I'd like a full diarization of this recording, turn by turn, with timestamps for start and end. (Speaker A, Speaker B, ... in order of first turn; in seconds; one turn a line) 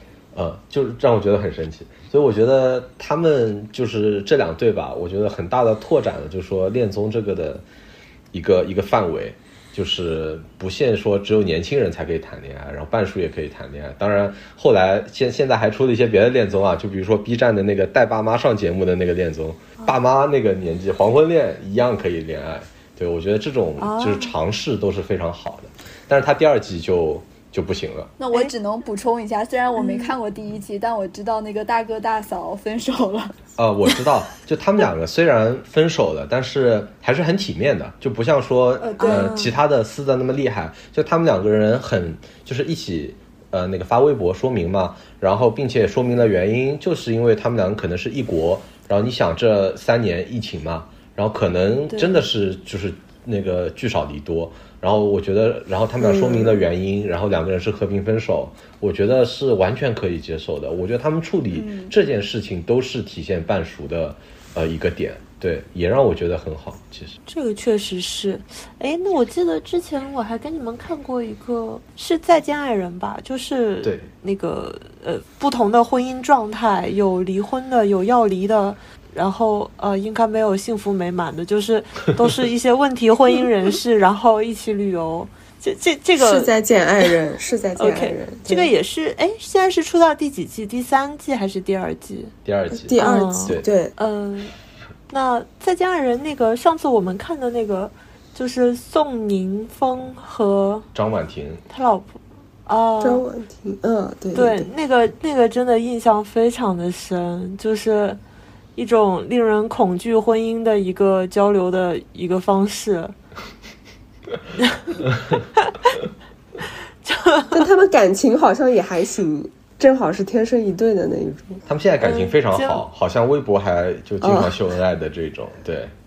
Speaker A: 0.3-7.6
Speaker A: 8.3-28.1
Speaker B: 23.8-24.4
Speaker C: 28.2-33.3
Speaker B: 29.8-30.1
Speaker A: 33.6-67.2
Speaker C: 38.8-39.3
Speaker B: 39.0-39.5
Speaker B: 51.9-52.2
Speaker D: 56.0-56.5
Speaker C: 61.5-61.9
Speaker B: 67.3-86.5
Speaker A: 73.8-74.1
Speaker D: 86.2-88.7
Speaker B: 87.8-92.3
Speaker A: 92.4-93.7
Speaker D: 92.7-93.9
Speaker B: 93.0-94.5
Speaker B: 95.1-100.9
Speaker A: 100.9-101.6
Speaker B: 101.7-103.2
Speaker D: 103.0-104.7
Speaker B: 104.3-108.2
Speaker B: 108.8-113.1
Speaker B: 114.6-115.0
Speaker B: 115.6-116.0
Speaker B: 117.0-117.6
Speaker D: 117.5-121.6
Speaker A: 121.7-125.9
Speaker B: 122.0-122.8
Speaker D: 124.2-124.6